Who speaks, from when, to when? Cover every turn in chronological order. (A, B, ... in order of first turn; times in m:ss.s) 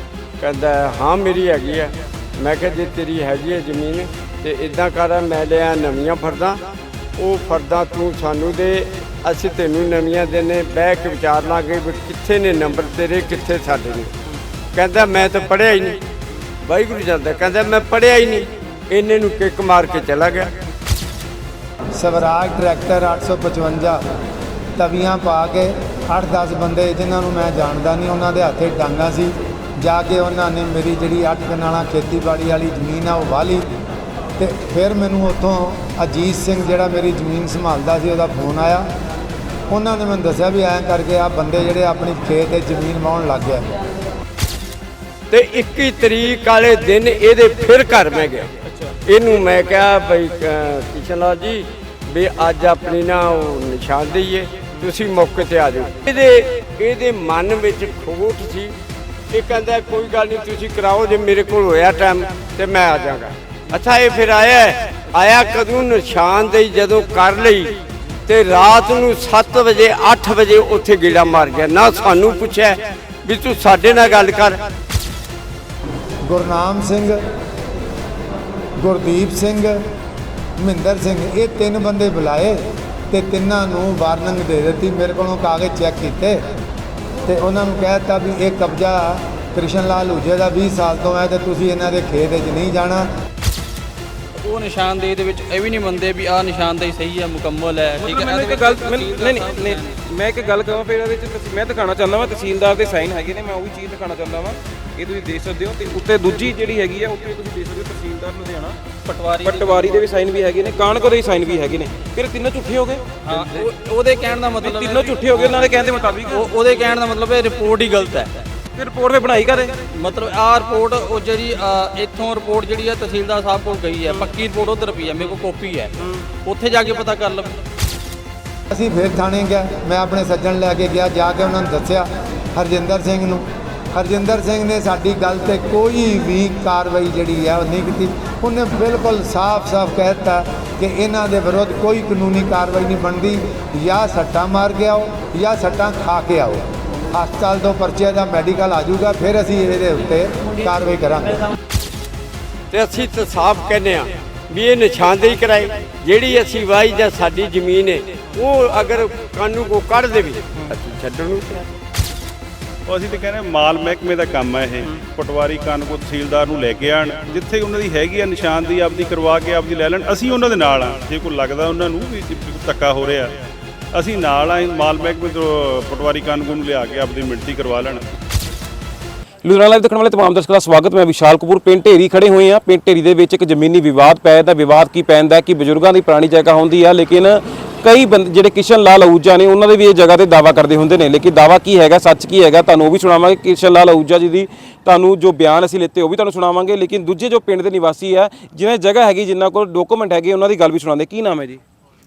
0:00.4-0:14.1 A
0:14.7-0:16.0 A
0:16.6-0:20.5 A
0:22.0-0:24.0 B
0:24.8-0:33.6 B
0:34.4-0:38.9 B
0:39.7-0:43.6 B
0:45.3-0:48.5 A
0:48.6-0:48.9 C
0:49.0-0:58.8 A
0:59.3-1:14.6 A
1:16.2-1:17.2 B
1:18.8-1:19.8 B
1:20.6-1:26.4 B
1:27.2-1:33.1 B
1:34.4-1:40.0 D
1:38.0-1:48.8 C
1:49.0-1:50.1 D
1:49.4-1:53.7 C
1:53.2-1:58.5 D
1:54.6-1:56.8 C
1:58.8-1:59.8 C
1:59.9-2:05.9 D
2:06.4-2:07.6 D
2:08.7-2:31.4 B
2:32.7-2:41.6 A
2:42.9-2:53.3 E
2:53.9-2:58.1 E
2:59.4-3:21.6 C